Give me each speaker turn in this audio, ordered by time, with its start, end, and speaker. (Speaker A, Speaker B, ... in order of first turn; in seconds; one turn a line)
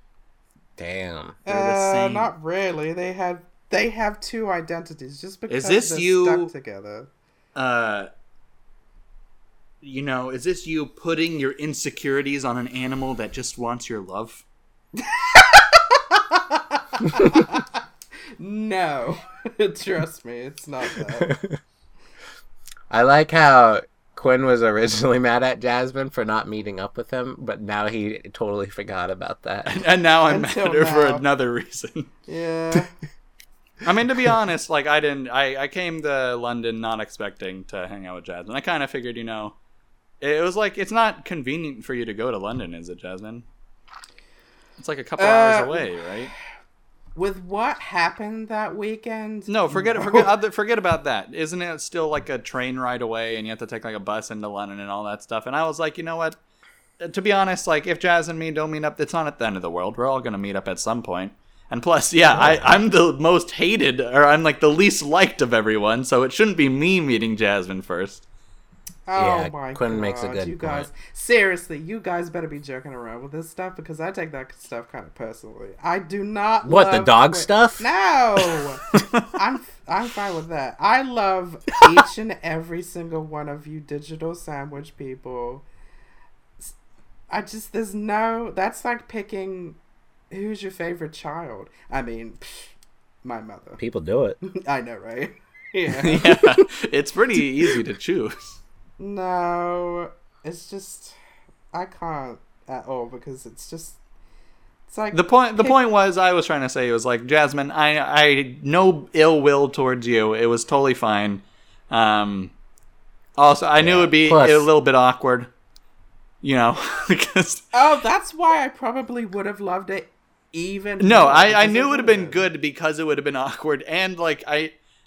Speaker A: 0.8-1.4
Speaker B: 1.4-7.1
Speaker C: 1.4-2.3
Speaker C: 5.5-6.5
Speaker C: 7.5-8.1
Speaker C: 9.8-14.4
Speaker B: 14.9-17.7
Speaker B: 18.4-21.4
Speaker A: 21.2-21.6
Speaker A: 22.9-29.8
Speaker C: 29.6-32.1
Speaker B: 30.3-31.2
Speaker B: 32.2-32.9
Speaker C: 33.8-39.5
Speaker C: 40.2-43.5
Speaker C: 44.8-46.3
Speaker B: 45.2-46.1
Speaker B: 47.1-50.3
Speaker C: 49.5-56.4
Speaker C: 57.0-68.2
Speaker A: 62.3-62.7
Speaker B: 69.1-85.6
Speaker A: 69.1-70.9
Speaker A: 76.6-77.9
Speaker C: 78.9-79.3
Speaker B: 87.3-89.8
Speaker B: 90.3-93.8
Speaker A: 93.8-94.4
Speaker B: 94.4-96.6
Speaker C: 95.9-98.6
Speaker B: 99.0-101.2
Speaker B: 101.7-104.0
Speaker B: 104.9-105.8
Speaker C: 105.1-112.5
Speaker C: 113.4-115.5
Speaker A: 113.8-114.7
Speaker C: 116.4-117.7
Speaker B: 117.7-122.4
Speaker C: 121.0-124.7